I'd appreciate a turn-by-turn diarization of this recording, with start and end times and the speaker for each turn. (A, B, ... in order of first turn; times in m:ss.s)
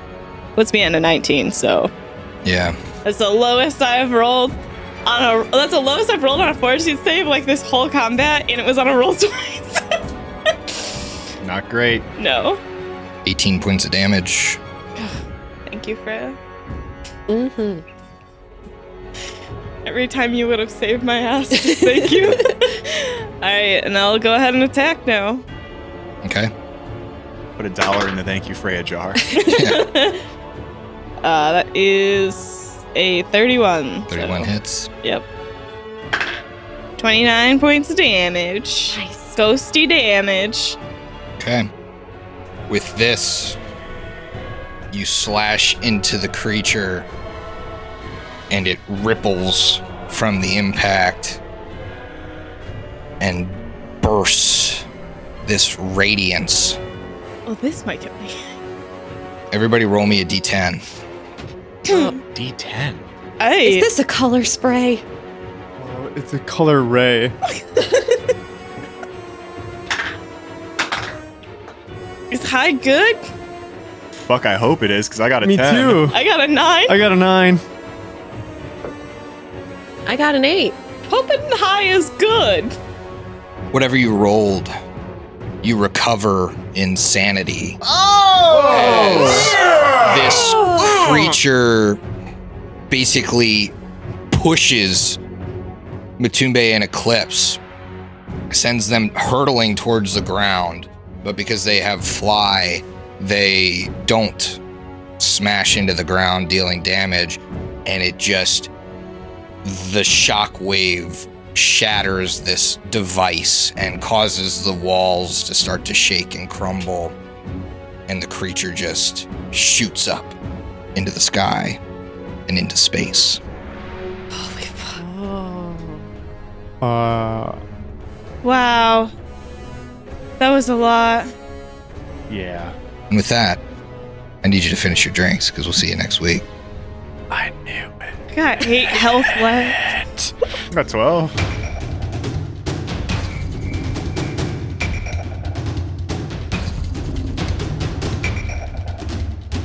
0:00.6-0:01.9 A
0:02.4-0:02.8 B
0:03.0-0:09.8 A
0:10.7-0:11.0 A
0:11.4-0:12.1 C
0:12.2-0:12.6 A
0:13.2-0:14.6 B
0:15.7-0:16.4 A
0:17.3-0:17.8 D
0:19.8-0:25.4 A
0:21.6-0:22.5 D
0:26.2-0:26.5 B
0:27.6-0:29.2 C
0:29.3-0:30.2 A
0:29.5-0:29.8 B
0:31.2-0:34.5 A
0:34.1-0:34.9 B
0:37.0-0:40.8 A
0:38.9-0:39.4 D
0:41.4-0:41.7 B
0:42.7-0:43.6 B
0:44.9-0:47.1 B
0:48.5-0:51.4 B
0:53.2-0:54.8 B
0:55.4-0:56.8 B
0:57.4-0:58.5 A
0:59.5-1:00.8 B
1:01.8-1:02.2 A
1:01.9-1:02.1 D
1:02.3-1:03.0 C
1:03.4-1:03.8 A
1:03.6-1:05.0 D
1:05.8-1:07.3 E
1:12.3-1:13.3 A
1:14.2-1:16.1 C
1:15.4-1:16.2 E
1:16.1-1:17.0 A
1:16.9-1:17.6 E
1:20.0-1:20.8 D
1:21.1-1:22.7 A
1:23.7-1:24.7 B
1:25.6-1:27.8 B
1:28.5-1:29.5 D
1:28.6-1:32.0 B
1:30.4-1:30.9 D
1:32.9-1:33.7 B
1:34.3-1:35.2 B
1:36.2-1:37.6 B
1:38.5-1:44.6 B
1:45.2-1:48.7 B
1:49.6-1:57.2 B
1:58.1-2:00.3 B
2:00.9-2:01.8 B
2:02.5-2:03.4 B
2:04.3-2:05.0 A
2:06.8-2:07.6 E
2:08.4-2:09.1 A
2:10.4-2:11.3 A
2:12.3-2:12.7 C
2:13.1-2:13.6 B
2:14.4-2:16.4 B
2:17.3-2:20.3 E
2:18.3-2:19.8 A
2:20.7-2:21.3 C